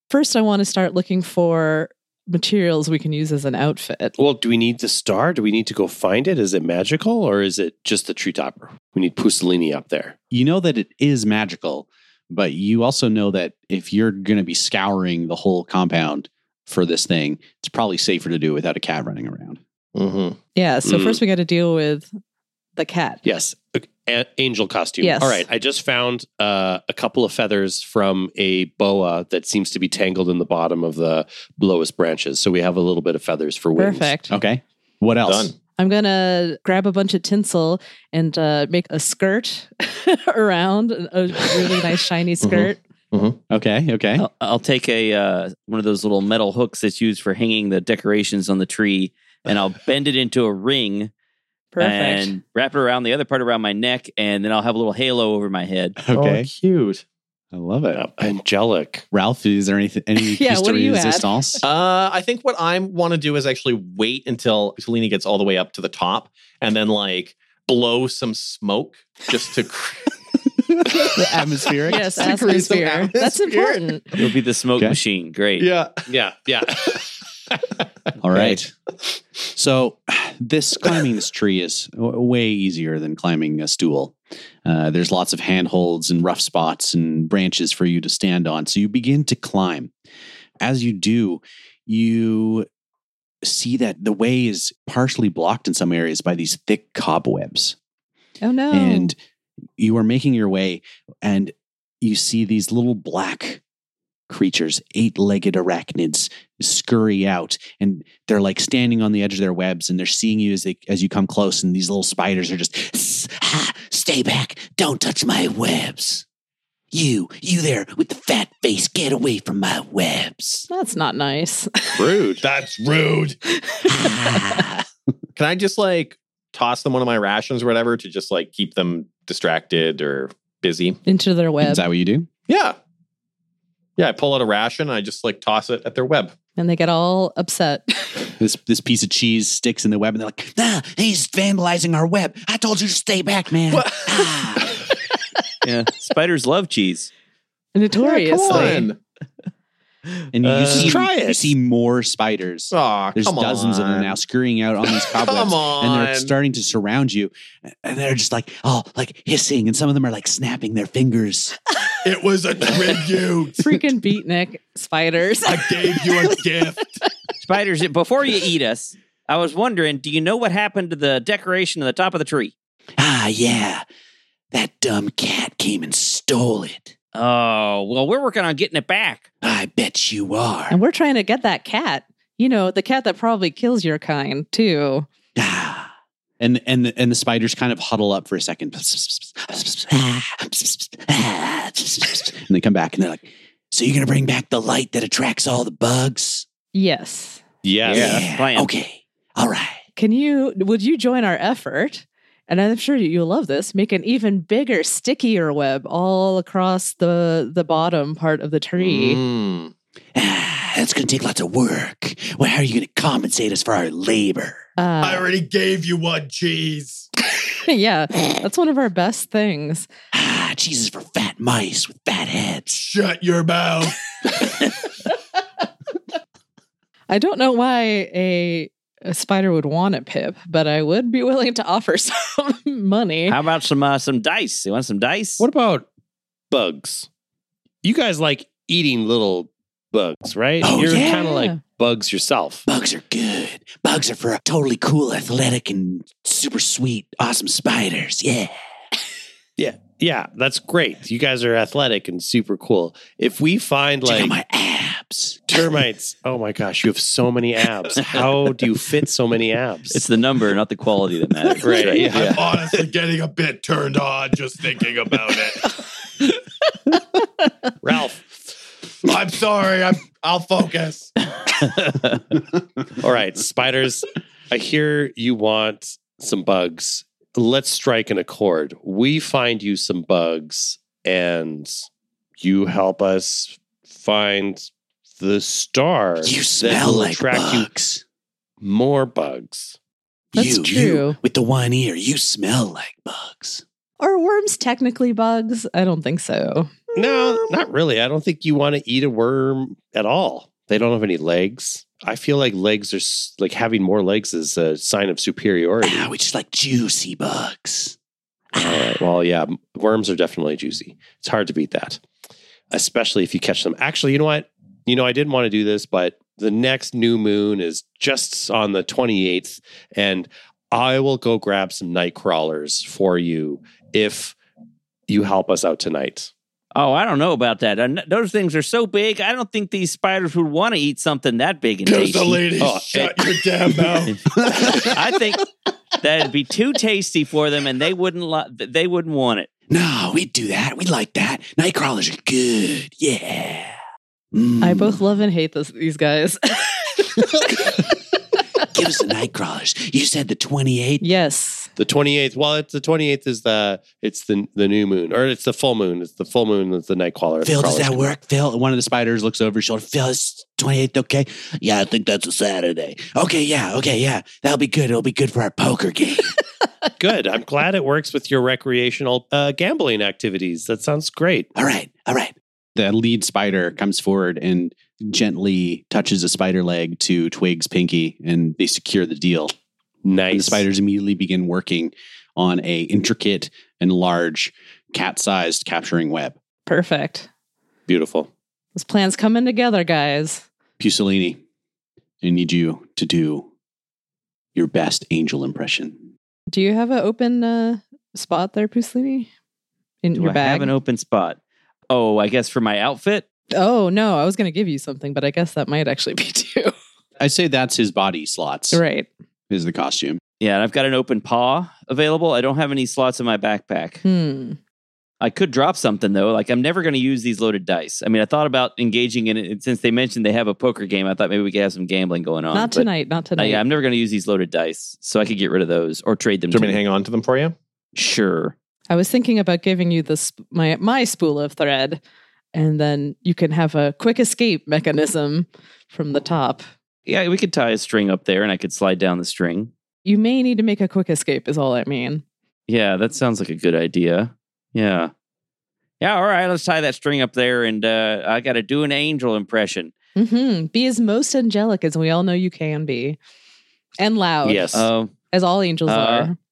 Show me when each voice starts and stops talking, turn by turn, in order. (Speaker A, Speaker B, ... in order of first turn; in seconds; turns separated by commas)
Speaker A: 0.1-4.2, Speaker B: 4.2-10.2, Speaker C: 10.3-19.6, Speaker D: 19.9-20.4, Speaker A: 20.6-22.1, Speaker B: 20.9-21.2, Speaker A: 22.8-23.2, Speaker B: 23.2-34.1, Speaker A: 25.0-25.5, Speaker A: 33.8-34.3, Speaker C: 34.3-35.5, Speaker D: 35.3-35.5, Speaker A: 35.8-42.8, Speaker D: 42.4-43.4, Speaker C: 43.5-44.3, Speaker E: 44.2-51.1, Speaker A: 51.7-52.4, Speaker E: 51.8-56.0, Speaker C: 56.0-56.5, Speaker D: 56.1-57.0, Speaker C: 57.5-58.1, Speaker B: 57.9-59.0, Speaker C: 59.1-61.6, Speaker A: 60.2-61.6, Speaker D: 61.6-70.1, Speaker C: 71.0-72.3, Speaker A: 71.9-74.1, Speaker D: 71.9-73.7, Speaker E: 74.2-75.7, Speaker D: 75.6-76.0, Speaker B: 76.1-77.0, Speaker C: 78.2-78.7, Speaker C: 79.5-89.9, Speaker C: 90.6-92.7, Speaker C: 93.4-97.8, Speaker A: 98.4-99.1, Speaker C: 98.7-99.2, Speaker C: 99.8-103.6, Speaker C: 104.3-116.2, Speaker C: 116.9-120.7, Speaker A: 120.7-122.4, Speaker F: 122.4-123.4, Speaker A: 123.5-124.6, Speaker C: 124.0-124.7, Speaker D: 125.4-131.0, Speaker A: 131.1-131.8, Speaker C: 131.6-132.3, Speaker D: 132.5-132.8, Speaker D: 134.0-136.4, Speaker A: 136.6-138.3, Speaker C: 138.4-144.8, Speaker D: 143.8-144.2, Speaker E: 145.6-147.1, Speaker A: 147.8-148.9, Speaker D: 148.0-149.0, Speaker C: 150.3-161.6, Speaker B: 150.4-151.5, Speaker D: 152.7-154.2, Speaker D: 155.0-156.3, Speaker F: 162.1-163.7, Speaker A: 163.6-166.4, Speaker F: 165.4-167.0, Speaker E: 167.4-172.5, Speaker C: 173.0-173.8, Speaker C: 174.5-176.9, Speaker E: 177.1-179.2, Speaker C: 179.4-180.8, Speaker A: 180.7-185.1, Speaker C: 185.4-196.5, Speaker A: 196.7-197.4, Speaker B: 197.6-198.2, Speaker E: 197.9-198.7, Speaker C: 197.9-199.8, Speaker A: 200.0-209.2, Speaker D: 208.8-209.7, Speaker C: 210.2-214.6, Speaker A: 214.8-215.3, Speaker F: 215.0-217.1, Speaker A: 217.6-219.9, Speaker C: 220.1-222.8, Speaker F: 222.7-224.0, Speaker A: 227.1-233.4, Speaker E: 233.3-235.4, Speaker B: 235.4-235.9, Speaker B: 236.5-237.1, Speaker B: 237.8-242.7, Speaker C: 240.6-241.3, Speaker A: 241.0-241.6, Speaker C: 242.7-248.5, Speaker B: 249.6-254.3, Speaker C: 254.1-255.5, Speaker B: 255.5-260.0, Speaker E: 259.9-262.4, Speaker B: 261.6-262.5, Speaker F: 261.9-265.7, Speaker B: 267.8-268.3, Speaker F: 269.0-271.1, Speaker B: 272.9-281.9, Speaker B: 282.4-287.7, Speaker C: 286.2-288.0, Speaker B: 288.6-289.8, Speaker C: 290.3-293.6, Speaker A: 290.4-291.2, Speaker A: 294.0-296.8, Speaker B: 296.9-306.1, Speaker C: 305.8-308.0, Speaker C: 308.5-309.0, Speaker B: 308.6-312.0, Speaker B: 312.7-324.4, Speaker B: 325.1-326.3, Speaker E: 326.8-333.1, Speaker F: 331.9-334.2, Speaker B: 332.6-333.1, Speaker E: 334.1-335.4, Speaker C: 334.3-335.0, Speaker E: 336.0-339.5, Speaker C: 339.7-343.8, Speaker C: 344.3-345.0, Speaker A: 344.6-347.9, Speaker C: 348.7-351.1, Speaker A: 351.0-351.7, Speaker B: 351.8-358.1, Speaker C: 357.4-366.3, Speaker B: 367.0-371.5, Speaker C: 371.6-379.5, Speaker B: 380.0-380.6, Speaker C: 380.3-386.4, Speaker A: 386.7-387.3, Speaker B: 387.9-388.3, Speaker A: 388.8-390.5, Speaker C: 390.8-391.4, Speaker C: 392.2-393.5, Speaker C: 394.6-396.0, Speaker A: 396.5-399.3, Speaker A: 400.0-400.7, Speaker E: 400.1-401.4, Speaker E: 401.9-403.2, Speaker A: 403.5-406.7, Speaker C: 407.2-408.8, Speaker A: 408.7-409.1, Speaker C: 409.5-410.2, Speaker E: 410.4-414.0, Speaker A: 414.0-414.6, Speaker E: 415.2-426.8, Speaker A: 422.5-423.6, Speaker D: 426.5-427.6, Speaker E: 428.0-428.6, Speaker A: 428.9-432.0, Speaker A: 432.5-436.6, Speaker E: 437.1-439.7, Speaker A: 440.1-442.2, Speaker E: 442.7-445.1, Speaker E: 446.0-449.9, Speaker A: 450.2-453.2, Speaker A: 454.0-456.4, Speaker B: 454.4-454.9, Speaker E: 454.7-455.1, Speaker E: 455.9-456.3